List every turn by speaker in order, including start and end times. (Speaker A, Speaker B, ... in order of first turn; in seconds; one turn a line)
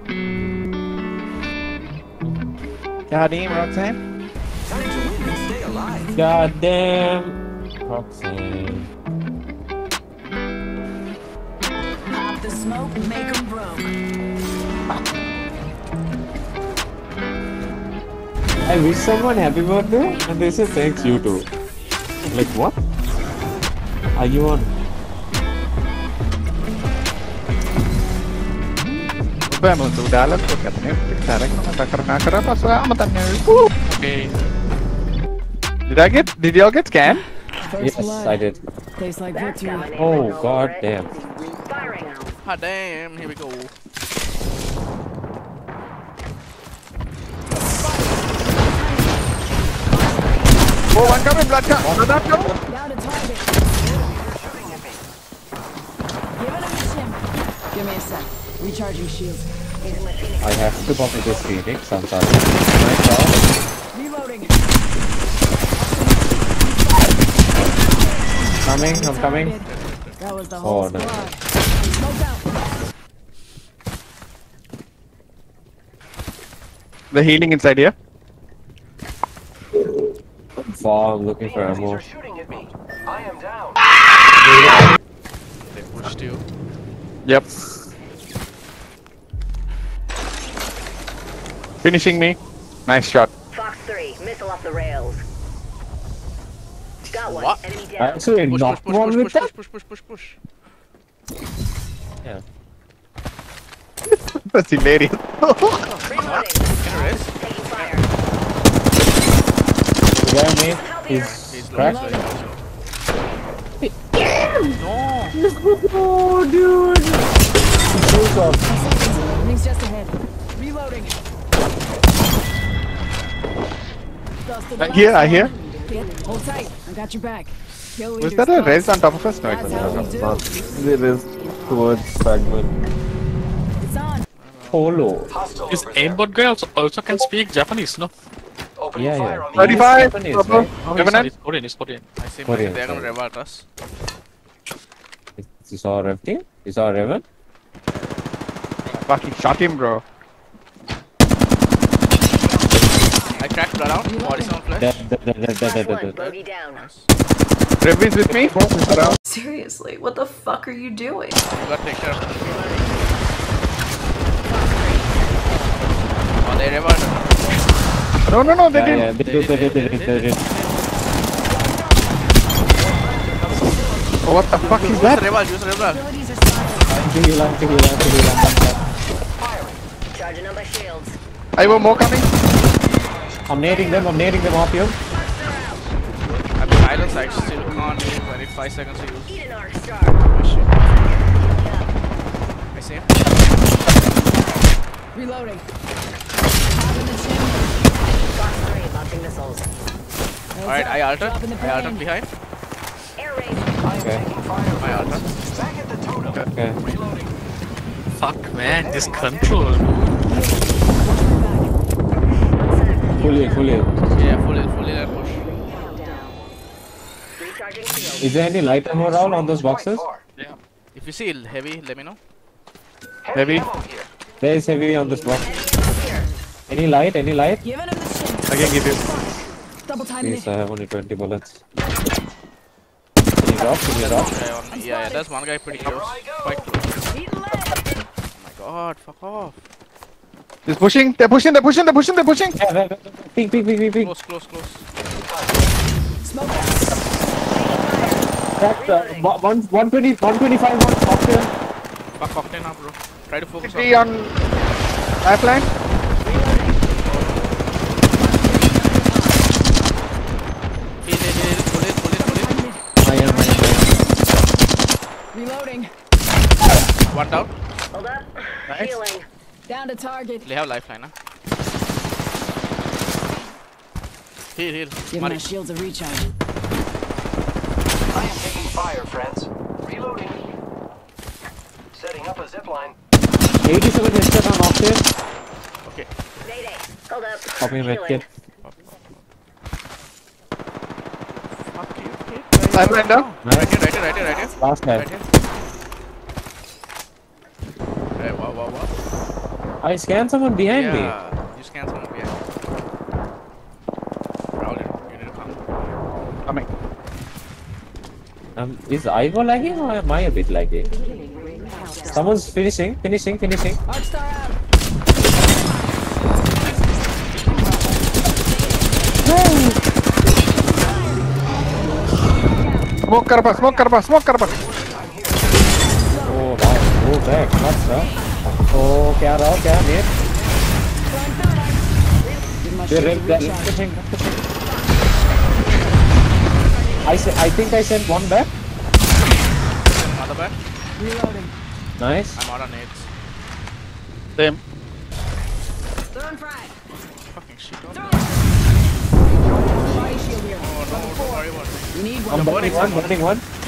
Speaker A: 3.1-4.0
Speaker B: 4.8-5.9
Speaker C: 6.1-8.9
Speaker D: 12.1-13.9
Speaker C: 18.6-21.5
Speaker C: 22.3-22.8
Speaker C: 24.2-24.7
Speaker A: 29.5-33.7
Speaker E: 33.9-34.3
Speaker A: 35.9-37.2
Speaker D: 37.7-38.4
Speaker C: 37.8-38.6
Speaker D: 39.0-39.9
Speaker F: 39.3-40.9
Speaker C: 39.9-41.1
Speaker F: 41.7-42.4
Speaker G: 42.4-43.7
Speaker D: 47.7-50.5
Speaker A: 50.9-52.5
Speaker C: 51.8-52.6
Speaker D: 52.7-53.5
Speaker B: 54.3-54.8
Speaker D: 56.4-57.2
Speaker D: 57.7-59.5
Speaker F: 59.8-60.4
Speaker C: 60.4-63.4
Speaker D: 63.9-64.5
Speaker D: 65.8-67.1
Speaker D: 68.0-69.6
Speaker C: 68.7-69.6
Speaker G: 69.6-70.2
Speaker D: 70.2-72.4
Speaker C: 70.6-71.2
Speaker A: 77.1-77.9
Speaker C: 80.6-82.0
Speaker B: 81.8-82.7
Speaker G: 85.7-86.4
Speaker A: 91.8-93.3
Speaker F: 93.5-95.2
Speaker F: 97.1-98.3
Speaker G: 97.3-97.6
Speaker C: 98.0-99.5
Speaker G: 98.5-100.4
Speaker A: 104.1-105.8
Speaker G: 105.8-108.0
Speaker F: 106.1-108.1
Speaker C: 110.2-112.0
Speaker F: 110.7-111.3
Speaker G: 111.2-112.6
Speaker D: 111.8-112.2
Speaker C: 113.8-114.7
Speaker G: 114.8-115.4
Speaker C: 115.3-117.3
Speaker C: 117.9-118.7
Speaker D: 118.7-121.1
Speaker D: 124.5-130.4
Speaker A: 124.8-125.5
Speaker A: 128.2-130.1
Speaker C: 129.6-132.7
Speaker D: 133.8-134.2
Speaker G: 134.4-134.9
Speaker C: 134.7-135.3
Speaker B: 135.5-136.0
Speaker E: 135.7-138.1
Speaker B: 138.8-139.8
Speaker C: 138.9-140.8
Speaker A: 139.6-141.3
Speaker E: 140.8-142.0
Speaker G: 142.2-143.7
Speaker C: 142.5-143.2
Speaker C: 145.4-147.2
Speaker A: 148.9-150.0
Speaker G: 153.4-155.0
Speaker D: 154.1-154.4
Speaker C: 154.8-156.2
Speaker F: 155.6-156.9
Speaker G: 156.2-157.1
Speaker A: 157.8-159.2
Speaker C: 158.3-159.2
Speaker H: 159.3-161.4
Speaker G: 161.5-163.0
Speaker F: 162.5-162.8
Speaker F: 164.5-165.7
Speaker G: 166.4-167.6
Speaker A: 168.3-169.1
Speaker G: 168.4-170.8
Speaker C: 168.7-170.4
Speaker D: 171.5-172.2
Speaker A: 174.2-175.2
Speaker G: 174.6-176.1
Speaker D: 175.9-176.9
Speaker C: 176.9-178.9
Speaker B: 179.5-179.7
Speaker F: 180.1-181.2
Speaker A: 181.6-182.3
Speaker C: 183.5-185.0
Speaker F: 185.1-185.9
Speaker G: 186.6-189.4
Speaker F: 186.9-187.9
Speaker F: 189.3-190.2
Speaker G: 190.2-190.9
Speaker F: 191.4-191.9
Speaker G: 192.7-193.1
Speaker D: 195.1-195.6
Speaker D: 196.7-197.8
Speaker F: 198.3-199.7
Speaker D: 200.6-202.0
Speaker G: 200.6-202.3
Speaker F: 203.2-203.7
Speaker G: 204.7-205.3
Speaker C: 206.5-206.8
Speaker E: 208.2-210.0
Speaker D: 210.3-211.7
Speaker F: 212.5-213.3
Speaker C: 213.2-213.9
Speaker G: 214.2-215.5
Speaker F: 215.8-216.2
Speaker F: 217.4-218.3
Speaker C: 218.2-220.1
Speaker G: 220.9-222.2
Speaker B: 223.3-224.0
Speaker A: 223.3-223.7
Speaker C: 224.4-225.6
Speaker F: 225.4-226.3
Speaker C: 226.7-227.6
Speaker D: 227.6-230.5
Speaker A: 228.5-229.0
Speaker C: 230.2-231.6
Speaker C: 233.4-234.3
Speaker G: 233.9-237.0
Speaker D: 234.8-235.2
Speaker D: 237.1-237.8
Speaker G: 238.4-239.6
Speaker A: 240.7-242.6
Speaker C: 242.6-244.1
Speaker G: 243.5-244.9
Speaker D: 246.2-246.9
Speaker F: 247.5-249.3
Speaker C: 248.6-251.5
Speaker G: 252.2-254.1
Speaker A: 253.6-254.3
Speaker A: 255.2-255.7
Speaker F: 256.2-256.8
Speaker G: 257.1-257.3
Speaker D: 258.1-259.4
Speaker G: 261.0-262.5
Speaker D: 262.2-262.8
Speaker C: 263.0-264.0
Speaker D: 265.3-265.9
Speaker G: 267.1-267.5
Speaker F: 267.9-269.2
Speaker A: 268.7-269.0
Speaker D: 269.7-270.4
Speaker G: 270.4-271.1
Speaker G: 274.6-275.4
Speaker D: 275.1-276.3
Speaker B: 278.3-279.4
Speaker C: 283.6-285.1
Speaker F: 286.4-288.2
Speaker C: 287.6-288.3
Speaker G: 288.6-288.9
Speaker G: 291.7-295.2
Speaker A: 292.7-293.3
Speaker C: 293.4-293.7
Speaker C: 294.6-295.1
Speaker G: 298.2-298.9
Speaker C: 299.8-301.1
Speaker G: 300.7-302.5
Speaker G: 304.6-305.6
Speaker C: 308.6-310.9
Speaker C: 312.1-313.8
Speaker D: 313.9-314.6
Speaker D: 315.5-315.9
Speaker A: 319.3-319.7
Speaker D: 322.5-322.9
Speaker A: 323.1-324.6
Speaker D: 325.9-326.4
Speaker C: 326.2-328.1
Speaker C: 328.7-330.1
Speaker D: 331.1-331.8
Speaker F: 332.2-332.5
Speaker D: 332.6-333.7
Speaker C: 332.9-334.4
Speaker F: 334.6-336.1
Speaker F: 336.7-337.4
Speaker C: 337.0-338.5
Speaker G: 339.8-340.6
Speaker D: 341.0-341.5
Speaker C: 342.0-342.4
Speaker G: 342.4-343.1
Speaker D: 346.1-346.7
Speaker G: 347.3-348.3
Speaker D: 349.8-351.4
Speaker G: 350.6-353.2
Speaker D: 351.9-352.7
Speaker C: 352.3-353.4